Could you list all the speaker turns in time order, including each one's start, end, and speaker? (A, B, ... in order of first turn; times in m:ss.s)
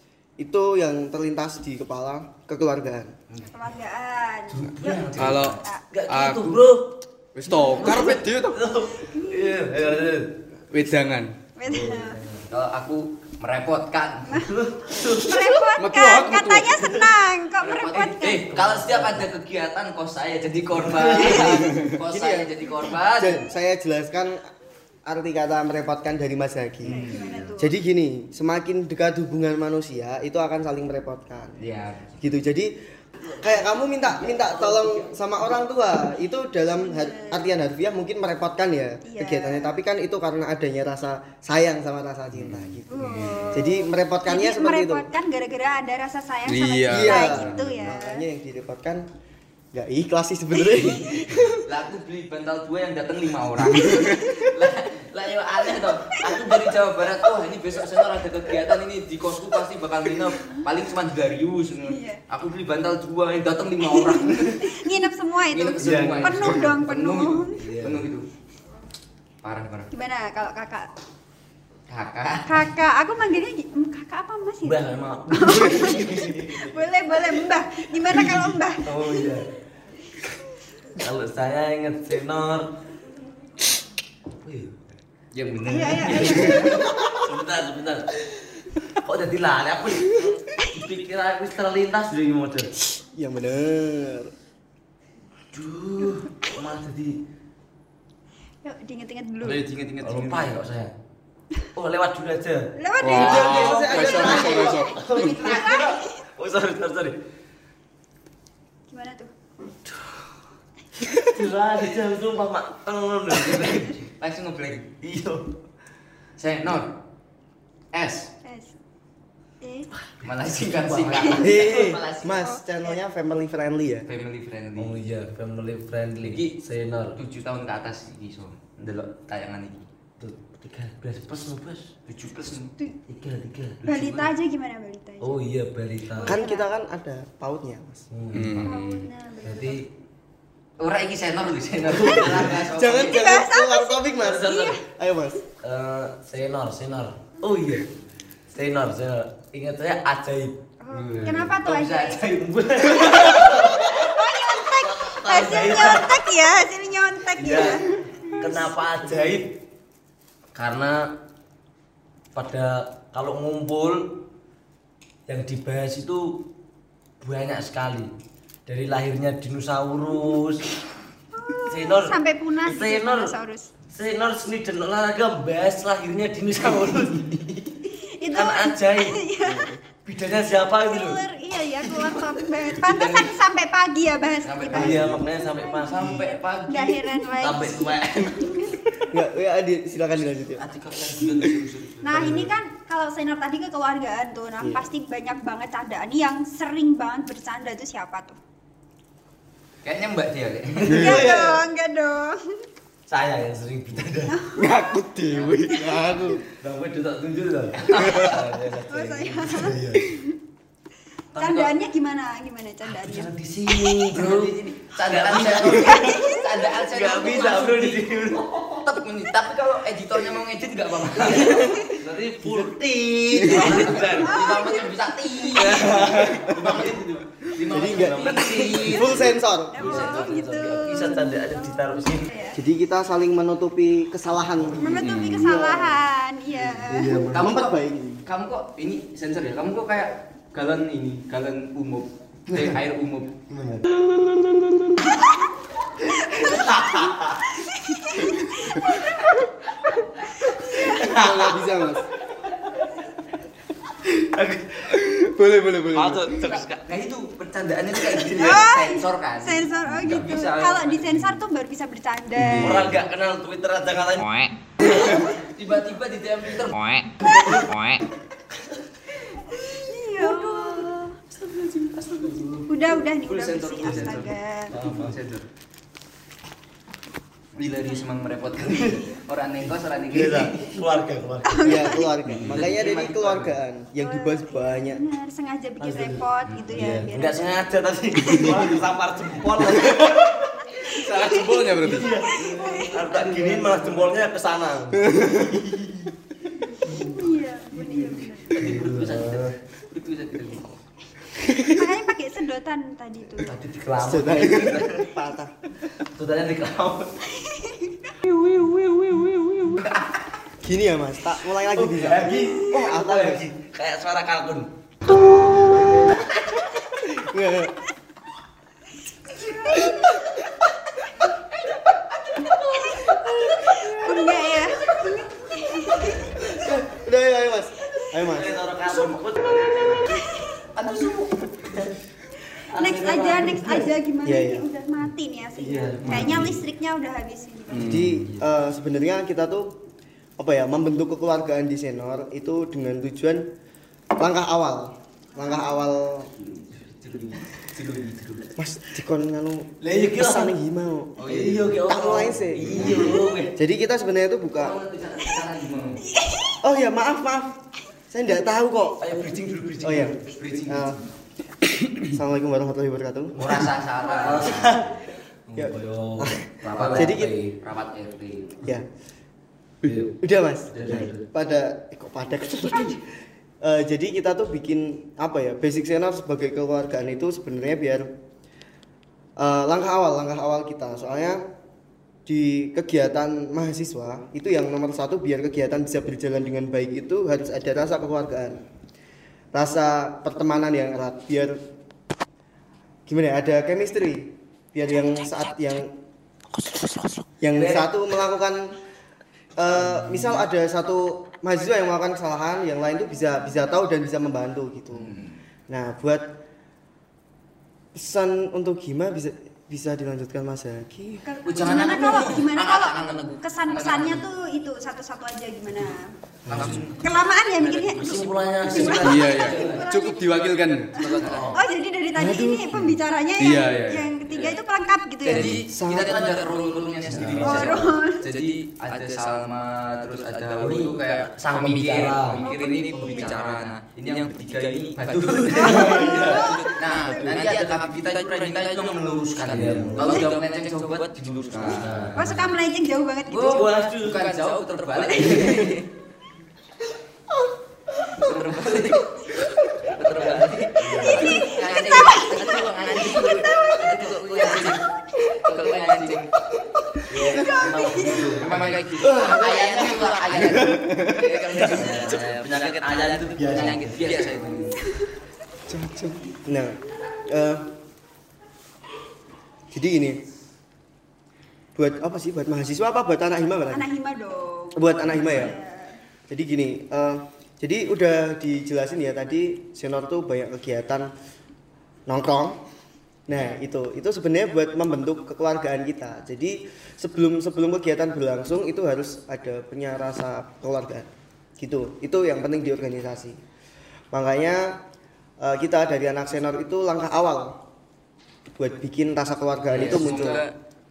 0:00.4-0:03.1 A
0:03.5-0:05.8 B
0:04.5-0:10.4 C
0:04.8-0:05.6 D
0:05.2-0:06.6 E
0:07.4-0:08.6 E
0:07.8-0:08.2 D
0:08.9-0:09.7 B
0:10.7-0:11.3 E
0:11.6-0:12.2 B
0:11.6-0:12.5 C
0:12.5-0:14.5 D
0:14.3-0:18.5 B
0:14.4-0:15.7 C
0:15.8-0:16.8 E
0:16.8-0:17.1 C
0:17.6-0:23.5 D
0:18.1-0:19.3 C
0:20.8-0:21.6 C
0:21.0-0:22.6 A
0:23.2-0:24.5 A
0:25.1-0:31.6 A
0:26.8-0:27.6 D
0:26.9-0:27.7 B
0:31.6-0:32.2 D
0:32.2-0:32.7 A
0:33.2-0:35.2 C
0:33.3-0:45.1 A
0:36.7-0:37.5 B
0:39.0-0:39.8 B
0:42.4-0:43.7 E
0:42.9-0:48.2 B
0:46.5-0:47.6 E
0:46.9-0:49.1 A
0:49.7-0:51.6 A
0:50.6-0:51.5 B
0:51.6-1:04.8 D
1:01.9-1:02.2 B
1:03.8-1:07.6 B
1:05.5-1:08.3 D
1:05.8-1:06.6 C
1:07.6-1:08.1 C
1:09.4-1:09.9 D
1:09.9-1:10.9 B
1:11.9-1:12.7 D
1:12.5-1:19.4 B
1:14.6-1:16.8 C
1:18.1-1:19.5 C
1:21.0-1:22.7 C
1:24.4-1:24.7 C
1:25.3-1:26.9 D
1:25.6-1:26.9 B
1:26.0-1:28.3 C
1:28.9-1:32.7 C
1:33.2-1:34.3 A
1:35.5-1:37.2 C
1:38.6-1:39.6 B
1:39.4-1:40.9 C
1:39.5-1:40.5 D
1:41.7-1:47.2 C
1:42.8-1:46.2 B
1:43.0-1:45.0 E
1:43.2-1:44.8 A
1:45.1-1:45.8 D
1:48.9-1:49.3 B
1:49.9-1:50.2 C
1:51.2-1:54.0 C
1:53.5-1:55.0 D
1:55.0-1:55.5 C
1:56.4-1:57.0 D
1:57.9-1:58.3 D
1:58.4-1:58.8 B
1:59.6-1:59.9 B
2:00.0-2:01.9 C
2:00.2-2:02.5 D
2:01.4-2:04.1 A
2:04.1-2:05.0 D
2:04.8-2:07.2 C
2:06.2-2:06.6 D
2:07.2-2:09.9 D
2:10.2-2:11.9 C
2:12.1-2:12.7 D
2:13.1-2:14.3 C
2:13.8-2:15.4 B
2:15.2-2:16.4 C
2:16.2-2:16.7 B
2:16.2-2:18.1 A
2:18.1-2:18.7 C
2:18.3-2:19.1 E
2:18.6-2:19.8 B
2:19.4-2:19.9 C
2:20.8-2:23.2 D
2:21.9-2:22.7 C
2:22.0-2:25.4 A
2:23.0-2:24.8 B
2:24.2-2:24.8 C
2:25.6-2:27.9 C
2:28.5-2:30.6 C
2:30.8-2:32.4 B
2:30.9-2:32.2 D
2:31.2-2:31.5 C
2:32.1-2:36.2 C
2:33.0-2:37.9 B
2:37.4-2:39.6 C
2:40.5-2:41.2 C
2:42.4-2:44.3 C
2:45.3-2:46.5 C
2:47.2-2:48.1 C
2:48.7-2:50.6 C
2:51.3-2:53.7 B
2:51.7-2:53.3 C
2:53.9-2:57.7 C
2:57.9-2:59.8 B
2:58.3-2:59.2 C
2:59.5-2:59.8 A
3:00.0-3:01.2 C
3:00.9-3:08.8 B
3:01.9-3:02.2 C
3:02.7-3:03.3 D
3:04.4-3:05.2 D
3:04.7-3:06.4 C
3:04.9-3:05.2 A
3:05.8-3:07.1 D
3:07.3-3:08.7 C
3:09.1-3:10.7 A
3:10.6-3:12.4 D
3:12.0-3:18.4 B
3:12.1-3:12.5 A
3:14.6-3:14.9 A
3:19.8-3:21.4 D
3:20.9-3:21.2 E
3:20.9-3:22.6 B
3:20.9-3:21.6 C
3:23.1-3:24.4 C
3:24.3-3:25.1 B
3:24.5-3:26.4 E
3:25.4-3:30.1 C
3:28.0-3:28.3 D
3:28.0-3:28.3 E
3:28.9-3:30.2 B
3:31.3-3:31.7 D
3:31.3-3:33.3 B
3:32.9-3:36.2 C
3:34.0-3:38.1 D
3:35.8-3:36.6 B
3:36.8-3:38.8 C
3:38.7-3:41.8 D
3:41.3-3:44.5 C
3:41.6-3:41.8 B
3:43.3-3:43.7 A
3:43.5-3:49.3 D
3:44.2-3:45.7 B
3:45.6-3:47.0 C
3:46.0-3:46.8 A
3:47.6-3:50.2 A
3:47.9-3:52.3 C
3:49.7-3:52.6 B
3:52.6-3:56.0 A
3:54.8-3:57.2 B
3:55.0-3:55.5 E
3:56.6-3:58.2 A
3:57.0-3:57.3 C
3:57.3-4:03.4 D
4:03.5-4:05.1 C
4:06.3-4:07.5 C
4:06.3-4:06.6 B
4:07.6-4:09.2 B
4:10.4-4:11.1 B
4:10.7-4:11.7 C
4:10.8-4:12.1 A
4:14.2-4:14.8 C
4:15.2-4:15.8 E
4:15.2-4:16.6 A
4:16.0-4:16.8 C
4:16.5-4:21.3 D
4:18.3-4:22.9 B
4:20.0-4:20.4 C
4:22.4-4:23.0 E
4:22.6-4:25.1 C
4:24.8-4:27.1 D
4:24.9-4:25.2 B
4:26.7-4:28.0 C
4:27.2-4:27.6 B
4:29.2-4:31.2 B
4:30.3-4:32.7 C
4:32.7-4:34.8 B
4:33.2-4:35.5 D
4:34.7-4:35.2 C
4:37.6-4:40.7 D
4:38.7-4:38.9 C
4:40.1-4:42.6 C
4:40.2-4:40.5 A
4:41.4-4:42.2 B
4:41.6-4:45.0 A
4:42.3-4:43.6 D
4:44.0-4:47.7 B
4:45.8-4:50.5 C
4:46.5-4:46.9 D
4:50.7-4:53.1 B
4:50.8-4:52.1 E
4:51.8-4:55.3 C
4:53.1-4:54.1 D
4:55.1-4:56.0 A
4:56.8-4:58.6 B
4:56.9-4:57.2 C
4:58.5-5:00.8 D
4:58.5-4:59.6 C
5:01.4-5:01.9 A
5:01.5-5:03.5 B
5:03.4-5:05.1 C
5:04.0-5:05.6 A
5:06.0-5:07.1 C
5:07.3-5:08.1 B
5:08.3-5:09.8 C
5:09.8-5:10.1 D
5:10.6-5:13.5 A
5:11.7-5:14.7 C
5:15.7-5:16.1 A
5:16.8-5:17.8 A
5:19.2-5:20.3 B
5:19.6-5:20.4 A
5:22.4-5:26.4 B
5:22.9-5:24.1 C
5:26.3-5:28.7 A
5:28.2-5:30.2 C
5:30.1-5:30.6 B
5:30.8-5:31.4 D
5:31.6-5:32.0 C
5:32.6-5:38.0 B
5:32.7-5:33.9 C
5:34.2-5:34.6 A
5:35.6-5:36.6 C
5:36.1-5:36.4 E
5:37.7-5:38.3 E
5:37.9-5:39.8 A
5:40.4-5:43.5 A
5:44.2-5:46.3 A
5:45.4-5:45.7 B
5:47.0-5:48.5 D
5:48.6-5:51.2 A
5:49.8-5:50.6 C
5:51.2-5:51.8 D
5:51.2-5:53.6 C
5:51.8-5:54.8 A
5:54.6-5:56.1 D
5:56.1-5:56.6 B
5:56.6-5:57.6 A
5:58.1-5:59.1 A
5:59.0-6:00.8 C
5:59.8-6:01.0 A
6:00.4-6:01.0 D
6:02.1-6:03.7 A
6:03.4-6:04.9 D
6:03.4-6:07.6 C
6:05.6-6:07.4 A
6:06.6-6:08.6 D
6:09.8-6:10.2 C
6:10.2-6:13.1 A
6:10.8-6:11.3 C
6:13.6-6:18.1 A
6:19.4-6:21.4 A
6:22.3-6:28.6 A
6:29.5-6:31.6 A
6:33.1-6:36.0 A
6:36.6-6:37.9 C
6:37.4-6:38.8 A
6:39.6-6:45.2 A
6:39.7-6:40.4 C
6:45.0-6:45.3 D
6:45.7-6:46.4 A
6:47.9-6:51.2 A
6:51.2-6:56.1 B
6:51.5-6:54.2 D
6:56.5-6:56.9 C
6:56.5-6:59.1 D
6:56.5-6:56.8 A
6:57.0-7:05.6 B
6:58.0-6:59.9 C
6:58.8-7:01.2 E
7:00.9-7:01.6 D
7:01.2-7:01.6 C
7:02.2-7:03.0 A
7:03.4-7:04.2 E
7:04.3-7:04.6 D
7:05.2-7:22.3 D
7:05.6-7:06.4 A
7:07.1-7:07.9 C
7:07.4-7:08.3 B
7:10.6-7:12.4 C
7:12.4-7:13.3 B
7:15.0-7:17.9 C
7:15.5-7:17.4 B
7:18.8-7:20.3 C
7:20.0-7:20.3 B
7:21.6-7:22.5 C
7:22.2-7:23.8 B
7:23.3-7:25.8 D
7:23.5-7:24.4 C
7:24.9-7:25.9 C
7:28.0-7:36.4 D
7:29.9-7:31.5 C
7:31.0-7:35.3 B
7:37.1-7:40.6 C
7:37.1-7:37.5 A
7:37.4-7:38.4 B
7:38.2-7:44.8 D
7:39.0-7:40.0 A
7:40.6-7:41.2 E
7:41.3-7:44.7 C
7:44.8-7:45.1 B
7:45.7-7:46.2 E
7:46.3-7:47.7 A
7:49.7-7:50.2 A
7:51.8-7:53.9 A
7:53.7-7:56.0 B
7:54.8-7:55.6 A
7:56.3-8:01.1 A
8:02.1-8:02.6 A
8:03.3-8:11.1 A
8:11.6-8:13.4 A
8:14.1-8:14.8 A
8:15.4-8:17.6 A
8:18.6-8:20.4 A
8:19.7-8:20.5 D